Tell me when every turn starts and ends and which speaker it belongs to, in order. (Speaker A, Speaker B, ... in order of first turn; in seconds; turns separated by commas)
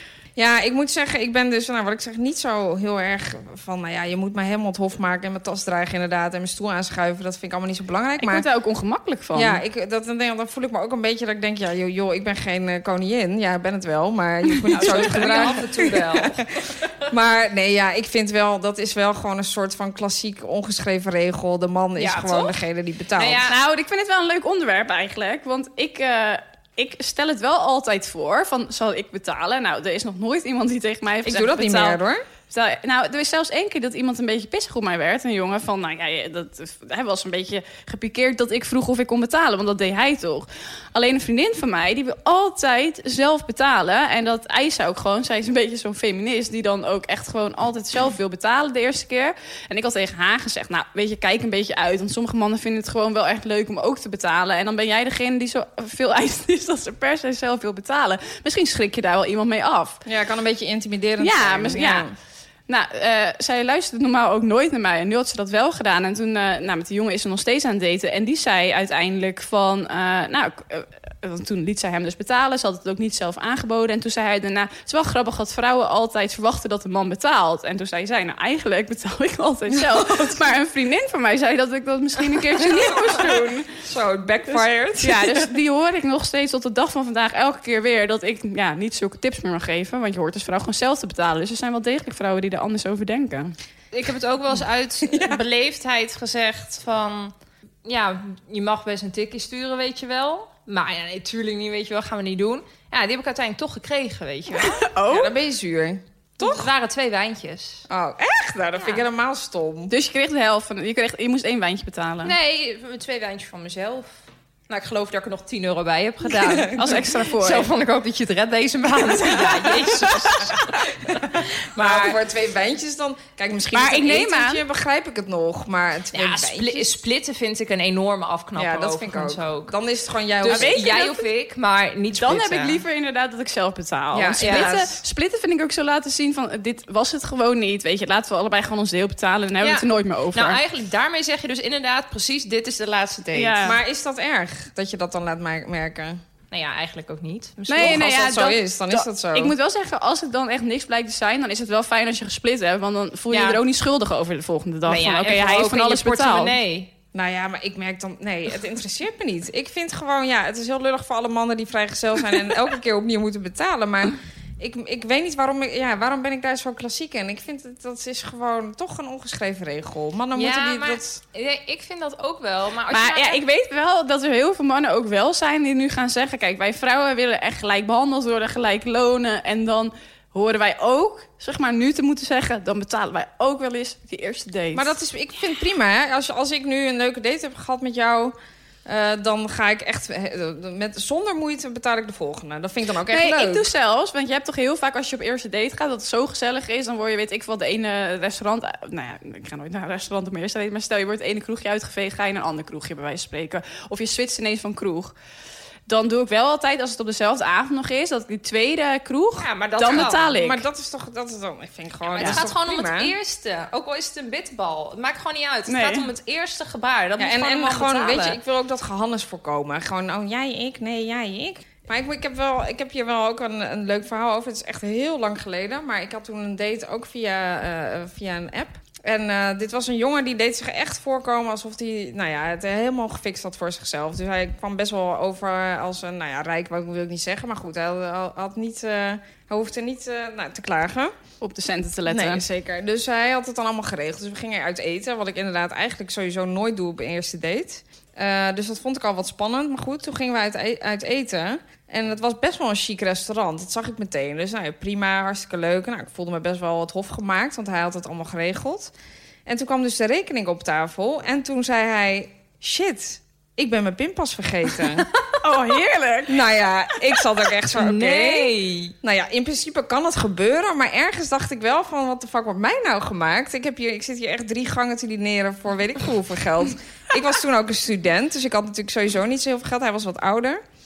Speaker A: 0.4-8.5, Speaker B: 8.2-9.6, Speaker A: 9.3-23.5, Speaker B: 14.7-15.6, Speaker C: 14.7-17.1, Speaker C: 22.0-22.6, Speaker C: 23.2-23.6, Speaker B: 23.5-60.0, Speaker A: 31.2-32.2, Speaker A: 60.0-62.1, Speaker B: 61.2-62.1, Speaker B: 62.7-83.6, Speaker A: 79.7-80.3, Speaker A: 82.5-85.5, Speaker B: 85.0-93.5, Speaker C: 93.9-97.3, Speaker A: 95.1-95.4, Speaker C: 97.8-104.9, Speaker B: 104.6-105.3, Speaker A: 105.1-106.7, Speaker C: 106.4-107.9, Speaker A: 107.9-109.9, Speaker C: 108.8-109.0, Speaker B: 109.9-112.3, Speaker C: 112.2-114.1, Speaker C: 114.7-122.2, Speaker A: 116.3-117.0, Speaker B: 116.7-117.7, Speaker A: 121.8-126.9, Speaker B: 123.7-124.6, Speaker C: 126.1-129.7, Speaker A: 128.6-130.9, Speaker C: 130.4-132.8, Speaker B: 130.5-131.2, Speaker B: 132.1-140.6, Speaker A: 134.1-135.0, Speaker C: 134.4-134.7, Speaker C: 139.6-143.6, Speaker B: 143.3-143.8, Speaker A: 143.6-146.2, Speaker C: 146.5-148.0, Speaker B: 147.7-156.6, Speaker A: 147.8-149.6, Speaker C: 153.3-153.6, Speaker C: 154.8-156.9, Speaker A: 157.1-171.2, Speaker C: 170.3-173.4, Speaker B: 172.9-184.9, Speaker A: 184.7-188.3, Speaker A: 188.9-193.7, Speaker B: 193.1-205.1, Speaker B: 205.9-210.6, Speaker C: 209.4-210.3, Speaker A: 209.9-213.1, Speaker C: 212.1-218.4, Speaker B: 215.7-216.1, Speaker A: 217.2-241.2, Speaker B: 241.4-242.4, Speaker A: 242.1-258.9, Speaker A: 259.5-265.1, Speaker B: 265.4-266.4, Speaker A: 266.3-280.6, Speaker C: 267.7-268.9